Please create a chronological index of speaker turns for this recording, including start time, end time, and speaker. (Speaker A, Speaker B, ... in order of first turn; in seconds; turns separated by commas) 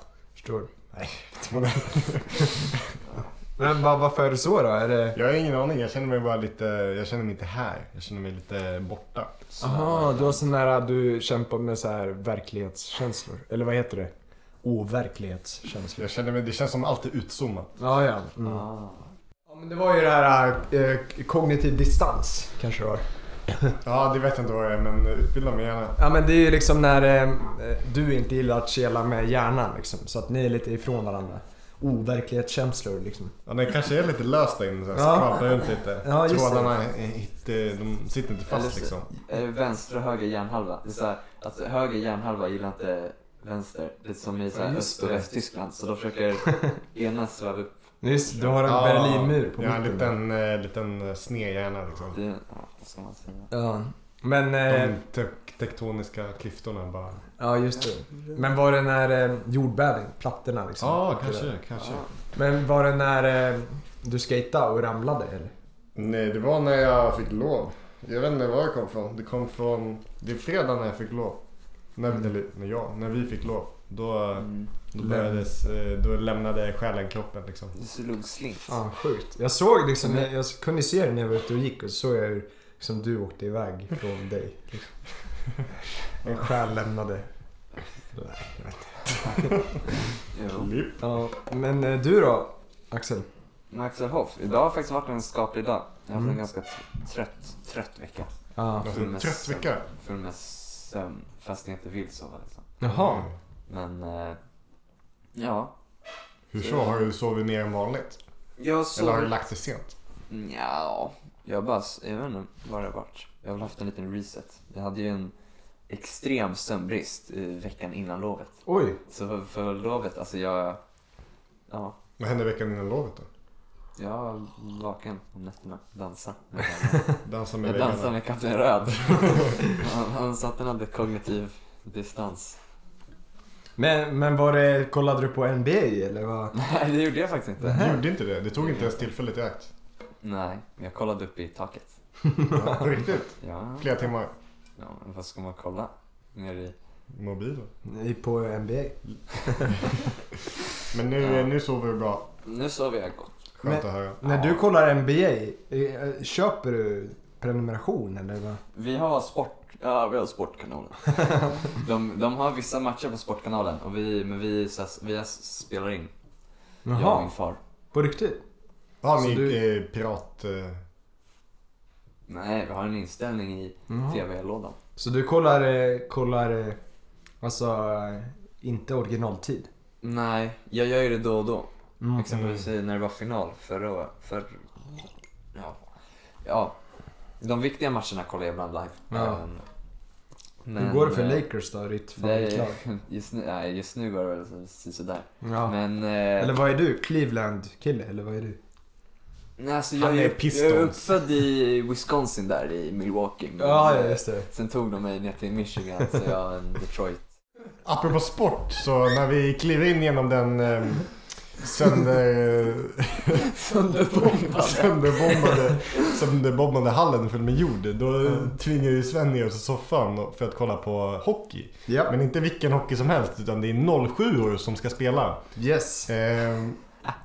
Speaker A: 0.4-2.6, Speaker B: 1.5-3.0, Speaker A: 3.6-5.2, Speaker B: 5.1-9.3, Speaker C: 9.6-10.4, Speaker A: 9.6-16.1, Speaker B: 16.0-17.7, Speaker A: 17.8-18.7, Speaker C: 18.4-19.0, Speaker A: 19.5-23.8, Speaker B: 23.8-26.0, Speaker A: 26.0-33.4, Speaker B: 33.5-39.1, Speaker A: 35.0-35.4, Speaker A: 36.0-36.7, Speaker C: 38.5-47.7, Speaker A: 44.5-45.2, Speaker A: 48.0-50.1, Speaker B: 48.4-52.2, Speaker C: 52.1-53.5, Speaker A: 53.5-55.0, Speaker B: 54.7-57.2, Speaker A: 57.4-61.5, Speaker B: 60.8-62.0, Speaker C: 61.8-62.1, Speaker A: 62.3-65.5, Speaker B: 66.0-71.4, Speaker B: 72.0-77.8, Speaker C: 74.4-74.7, Speaker A: 75.0-75.4, Speaker C: 77.8-78.8, Speaker A: 78.7-84.9, Speaker A: 86.2-87.3, Speaker A: 88.1-89.6, Speaker C: 90.3-90.7, Speaker B: 90.5-91.0, Speaker A: 91.0-93.3, Speaker C: 93.7-98.3, Speaker A: 98.6-98.9, Speaker B: 98.8-99.9, Speaker C: 98.8-102.7, Speaker A: 102.8-103.3, Speaker B: 102.9-103.3, Speaker C: 103.7-104.4, Speaker C: 105.3-105.7, Speaker B: 106.5-108.2, Speaker C: 106.6-106.9, Speaker C: 108.6-109.4, Speaker B: 108.9-109.9, Speaker C: 110.3-115.3, Speaker C: 115.9-120.8, Speaker A: 118.7-119.0, Speaker C: 121.7-122.0, Speaker B: 122.2-123.3, Speaker C: 124.0-132.6, Speaker B: 127.2-128.1, Speaker B: 129.0-129.5, Speaker A: 133.8-136.6, Speaker C: 136.5-138.0, Speaker A: 137.6-138.0, Speaker B: 137.7-139.7, Speaker C: 138.6-139.0, Speaker C: 140.2-141.9, Speaker A: 142.3-142.8, Speaker B: 142.5-144.3, Speaker C: 143.3-143.9, Speaker C: 144.8-146.8, Speaker B: 147.2-147.7, Speaker A: 147.8-149.9, Speaker B: 150.9-152.3, Speaker C: 151.2-151.5, Speaker C: 152.5-153.3, Speaker B: 153.6-154.2, Speaker A: 153.6-158.6, Speaker C: 154.2-154.6, Speaker C: 158.8-166.1, Speaker A: 166.8-167.3, Speaker C: 166.9-167.6, Speaker A: 167.9-168.4, Speaker B: 169.0-170.8, Speaker A: 169.2-169.6, Speaker C: 172.3-174.8, Speaker A: 173.9-174.2, Speaker A: 175.0-176.8, Speaker A: 177.4-179.7, Speaker C: 180.0-184.6, Speaker A: 182.0-182.3, Speaker B: 182.3-182.7, Speaker C: 186.4-186.8, Speaker C: 187.4-189.6, Speaker A: 189.1-189.4, Speaker C: 190.7-191.4, Speaker A: 190.8-192.8, Speaker C: 192.2-196.6, Speaker A: 195.4-195.8, Speaker A: 196.4-198.6, Speaker C: 199.6-207.3, Speaker B: 200.0-201.1, Speaker A: 203.6-204.5, Speaker B: 207.8-213.5, Speaker C: 213.4-216.2, Speaker B: 214.2-225.4, Speaker A: 221.9-222.2, Speaker A: 225.6-226.1, Speaker B: 226.1-226.8